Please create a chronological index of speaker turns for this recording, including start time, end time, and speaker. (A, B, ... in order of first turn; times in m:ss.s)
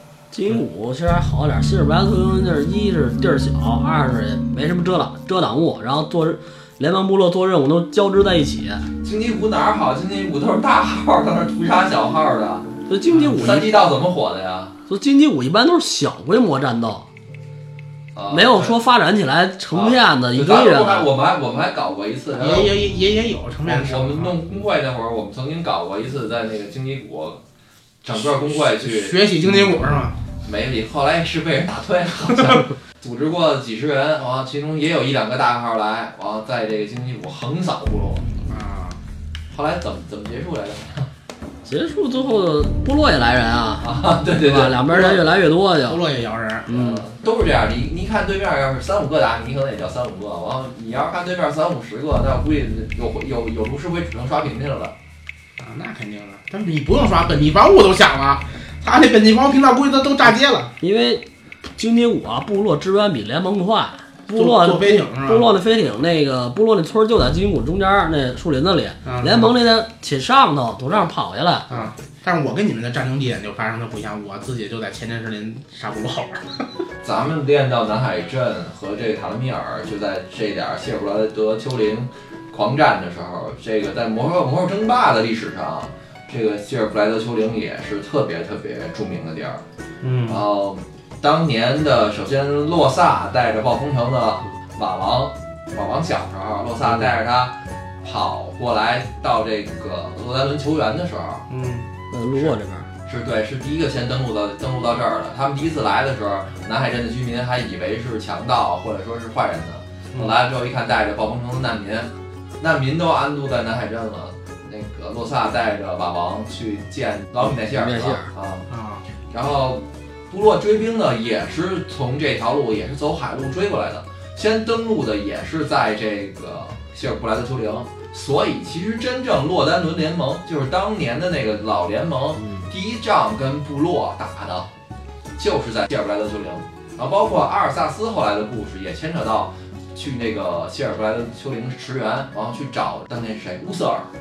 0:00.3-0:08.8 A
0:09.0-0:14.8 B
0:12.9-0:13.8 A
0:14.9-0:17.1 A
0:18.1-0:18.8 B
0:18.3-0:21.1 A
0:19.7-0:22.8 B
0:22.3-0:24.3 C
0:23.6-0:27.4 B
0:28.0-0:29.9 B
0:28.2-0:30.2 C
0:30.4-0:38.3 B
0:32.3-0:32.6 C
0:38.5-0:39.0 C
0:39.5-0:41.1 B
0:41.6-0:46.0 A
0:43.8-0:45.3 B
0:45.8-0:46.7 C
0:46.7-0:47.0 A
0:46.7-0:54.9 B
0:55.6-1:00.7 C
1:00.8-1:11.7 A
1:04.3-1:05.5 C
1:09.0-1:09.5 C
1:11.7-1:16.7 C
1:17.0-1:29.6 B
1:30.0-1:30.4 C
1:30.3-1:41.5 B
1:41.5-1:41.9 C
1:42.1-1:42.9 A
1:43.0-1:58.7 B
1:57.7-1:58.3 A
1:58.7-1:59.0 C
1:59.3-2:14.7 B
2:12.4-2:12.7 A
2:15.4-2:24.1 B